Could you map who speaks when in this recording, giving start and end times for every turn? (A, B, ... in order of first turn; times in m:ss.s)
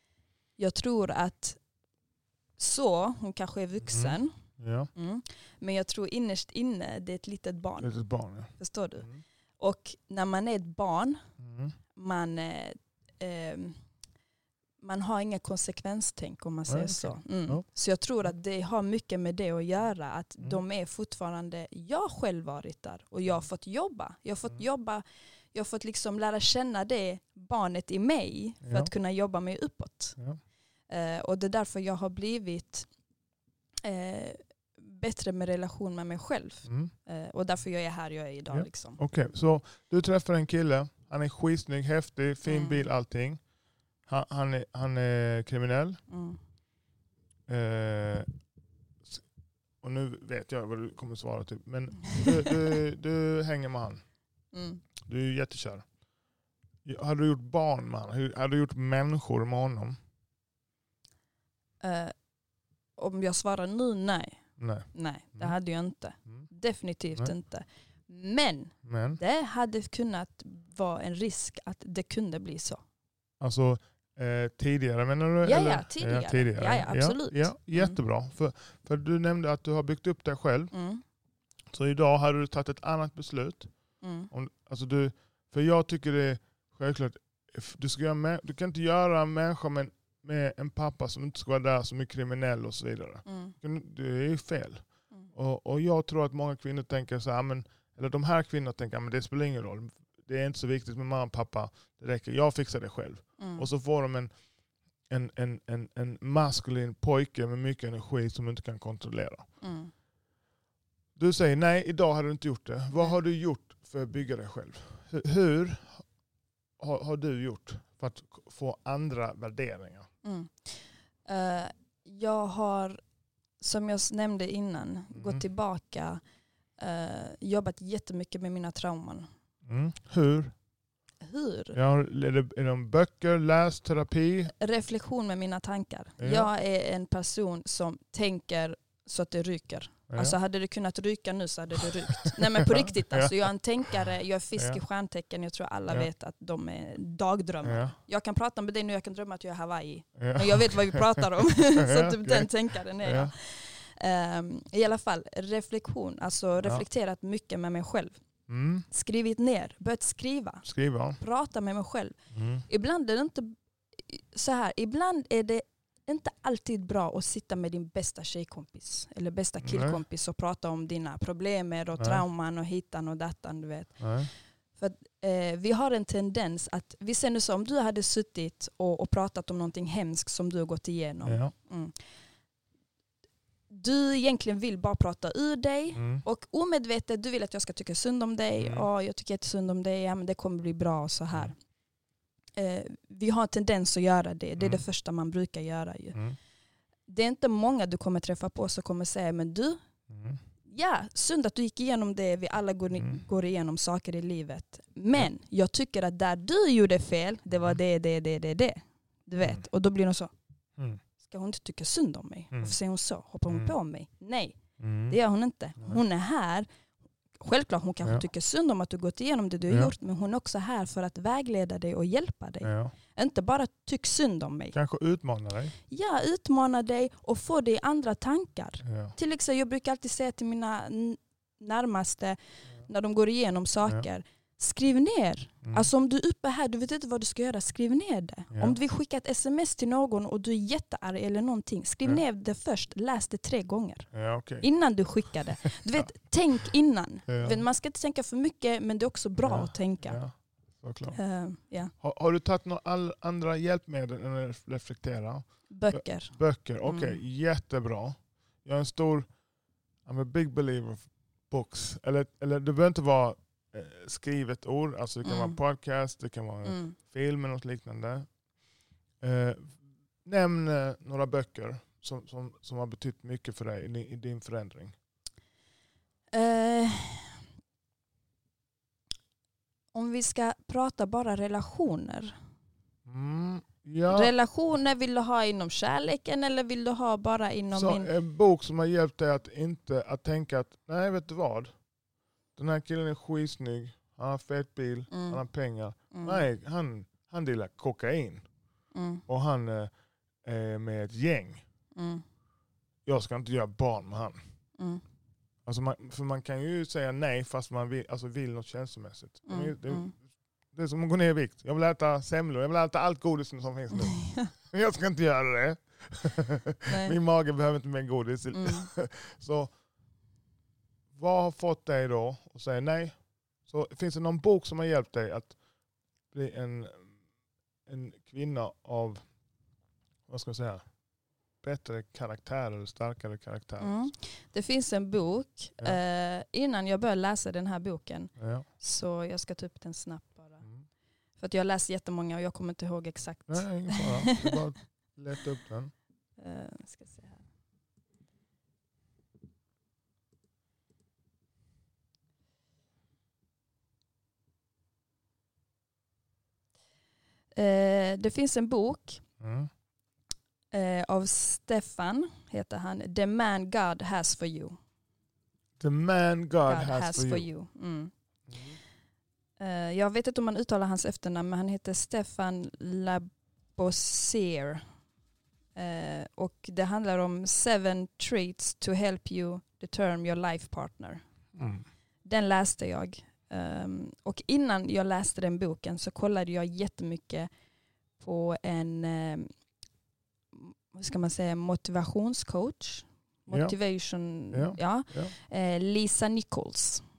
0:00.6-0:01.6 A
0:02.6-0:04.3 A
0:03.9-0:04.9 B
0:05.0-0:07.9 A
0:07.8-0:09.2 B
0:08.6-0:09.1 A
0:09.6-0:11.2 A
0:11.4-0:11.8 B
0:12.0-0:13.8 A
0:14.8-0:30.2 A
0:16.7-0:17.6 B
0:28.6-0:28.9 B
0:30.9-0:32.9 A
0:33.8-0:39.0 A
0:36.7-0:36.9 B
0:38.5-0:43.4 B
0:42.4-0:42.9 A
0:44.1-0:46.0 B
0:46.1-0:46.4 A
0:47.5-0:48.3 B
0:49.8-0:54.0 B
0:54.5-0:54.8 A
0:55.1-0:55.9 B
0:56.8-1:00.0 B
1:01.8-1:02.2 A
1:03.0-1:12.8 A
1:04.6-1:05.6 B
1:08.8-1:09.2 B
1:13.4-1:20.7 B
1:15.4-1:18.0 A
1:20.7-1:21.0 A
1:21.7-1:23.7 B
1:24.0-1:24.3 A
1:24.3-1:44.3 B
1:33.3-1:33.6 A
1:43.4-1:43.6 A
1:45.1-1:49.5 B
1:49.6-1:49.9 A
1:51.2-1:56.1 B
1:56.8-2:00.1 B
2:00.2-2:03.0 A
2:03.6-2:06.2 A
2:05.1-2:05.4 B
2:06.8-2:09.3 A
2:09.7-2:10.6 B
2:11.2-2:11.8 A
2:11.7-2:14.5 B
2:14.6-2:38.2 A
2:16.2-2:16.5 B
2:20.1-2:20.4 B
2:22.2-2:23.4 B
2:27.6-2:28.0 B
2:30.2-2:33.3 B
2:38.5-2:38.9 B
2:38.9-2:40.6 A
2:40.6-2:41.2 B
2:41.2-3:02.1 A
2:42.3-2:42.7 B
2:49.6-2:50.0 B
2:52.0-2:52.2 B
2:54.0-2:54.3 B
3:01.2-3:01.5 B
3:03.7-3:11.6 A
3:05.9-3:06.2 B
3:08.6-3:08.9 B
3:12.6-3:16.2 A
3:14.6-3:14.8 B
3:17.1-3:19.8 A
3:20.1-3:20.4 B
3:20.7-3:30.3 A
3:22.9-3:23.2 B
3:27.5-3:27.8 B
3:29.4-3:29.6 B
3:31.2-3:36.7 A
3:33.5-3:33.7 B
3:34.8-3:35.2 B
3:37.4-3:44.8 A
3:42.6-3:43.0 B
3:44.7-3:45.8 B
3:45.9-4:10.2 A
3:48.8-3:49.2 B
3:58.5-3:58.8 B
4:04.1-4:04.7 B
4:07.3-4:07.6 B
4:09.4-4:11.2 B
4:11.2-4:11.9 A
4:12.0-4:19.3 B
4:15.7-4:17.2 A
4:20.0-4:28.3 B
4:25.2-4:25.6 A
4:26.6-4:27.0 A
4:29.2-4:35.0 B
4:36.3-4:37.4 A
4:39.9-4:42.4 A
4:43.1-4:44.3 B
4:44.1-4:48.1 A
4:47.7-4:51.8 B
4:52.6-4:58.5 B
4:55.1-4:55.4 A
4:56.1-4:56.4 A
4:58.9-4:59.2 A
4:59.3-4:59.9 B
5:00.4-5:01.6 B
5:02.0-5:02.2 A
5:03.1-5:04.4 B
5:04.8-5:05.0 A
5:05.7-5:19.8 B
5:09.5-5:10.1 A
5:16.9-5:17.2 A
5:18.5-5:18.9 A
5:21.1-5:25.6 B
5:26.3-5:27.2 B
5:27.9-5:29.3 B
5:30.3-5:30.9 B
5:31.6-5:34.1 B
5:33.8-5:40.6 A
5:38.4-5:38.7 B
5:40.6-5:40.9 B
5:41.4-5:44.5 A
5:43.5-5:45.9 B
5:46.4-5:47.4 A
5:57.6-5:59.2 A
5:59.4-5:59.7 B
6:00.7-6:04.8 A
6:05.8-6:07.5 B
6:06.7-6:08.1 A
6:08.5-6:08.8 B
6:09.6-6:14.9 A
6:15.8-6:21.2 A
6:21.6-6:21.9 B
6:22.2-6:27.5 A
6:28.2-6:29.5 A
6:30.5-6:37.0 A
6:34.5-6:35.3 B